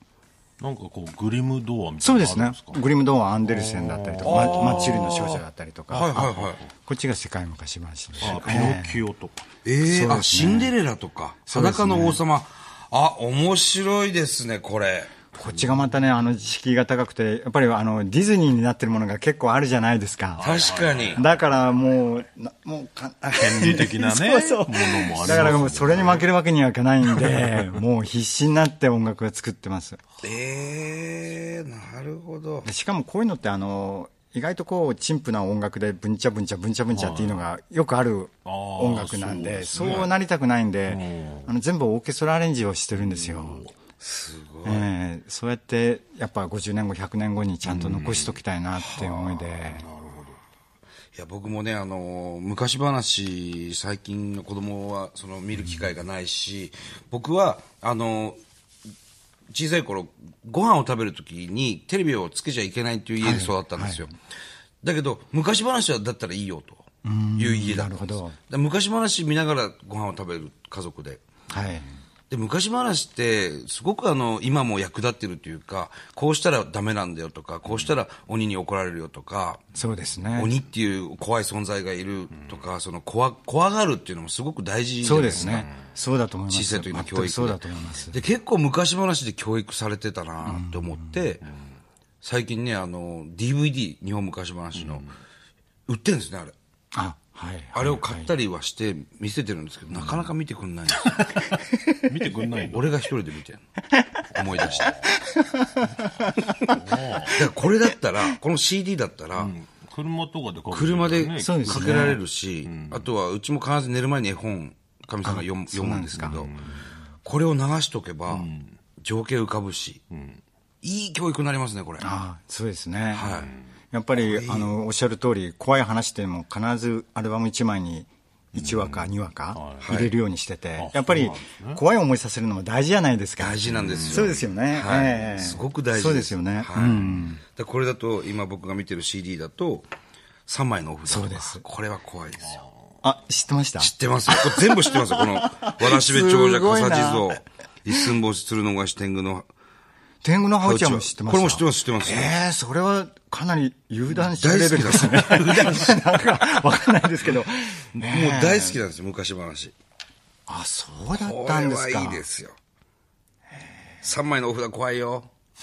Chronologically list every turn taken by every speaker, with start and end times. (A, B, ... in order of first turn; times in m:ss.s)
0:00.6-0:02.8 A
0:02.0-0:09.0 B
0:03.4-0:06.6 A
0:04.2-0:05.3 C
0:05.9-0:06.6 C
0:08.2-0:08.7 C
0:08.2-0:09.4 A
0:09.6-0:15.2 C
0:09.9-0:10.8 B
0:11.5-0:12.2 B
0:15.3-0:20.4 B
0:15.4-0:15.8 A
0:20.4-0:21.5 A
0:20.4-0:21.2 C
0:21.1-0:30.0 B
0:23.3-0:26.3 A
0:27.1-0:27.8 A
0:30.2-0:32.7 C
0:32.6-0:43.6 B
0:36.9-0:37.4 A
0:38.4-0:40.1 A
0:39.8-0:40.1 C
0:40.9-0:41.5 A
0:43.0-0:43.7 A
0:44.0-0:44.9 C
0:44.6-0:49.9 B
0:47.6-0:48.4 A
0:48.8-0:49.2 C
0:49.5-0:50.4 A
0:51.2-0:58.4 C
0:59.5-1:04.1 C
1:03.2-1:04.1 B
1:04.8-1:06.9 C
1:07.0-1:08.4 B
1:07.4-1:11.2 C
1:11.5-1:11.9 B
1:12.3-1:19.6 C
1:19.7-1:20.6 B
1:20.4-1:25.7 C
1:22.3-1:22.6 A
1:25.0-1:28.2 B
1:25.3-1:25.9 A
1:26.5-1:31.4 C
1:30.4-1:31.2 B
1:31.5-1:31.8 A
1:32.2-1:35.1 C
1:34.8-1:35.1 A
1:35.9-1:36.6 C
1:36.9-1:38.3 B
1:37.7-1:41.1 C
1:39.9-1:40.3 A
1:42.1-1:42.9 A
1:42.7-1:43.6 C
1:44.3-1:45.0 C
1:44.4-1:45.1 A
1:45.3-1:46.3 B
1:46.7-1:47.4 A
1:47.3-1:49.5 C
1:49.3-1:53.1 A
1:50.7-1:56.5 C
1:51.4-1:52.2 B
1:55.2-1:56.4 B
1:56.2-1:56.9 A
1:57.2-2:00.0 C
1:58.3-1:58.8 A
2:00.1-2:00.4 A
2:00.8-2:02.1 C
2:02.0-2:03.3 B
2:03.1-2:03.5 C
2:03.3-2:03.7 A
2:03.9-2:17.4 B
2:04.2-2:04.8 C
2:08.5-2:10.0 A
2:09.8-2:10.1 C
2:10.8-2:11.8 A
2:13.4-2:19.9 C
2:13.7-2:14.4 A
2:20.5-2:22.6 C
2:21.1-2:21.6 B
2:22.4-2:22.7 A
2:23.0-2:27.3 B
2:23.8-2:29.5 C
2:30.2-2:38.8 B
2:30.6-2:32.4 C
2:34.2-2:36.0 C
2:35.3-2:35.7 A
2:38.0-2:39.8 C
2:40.5-2:42.2 B
2:41.2-2:42.5 C
2:44.0-2:45.3 C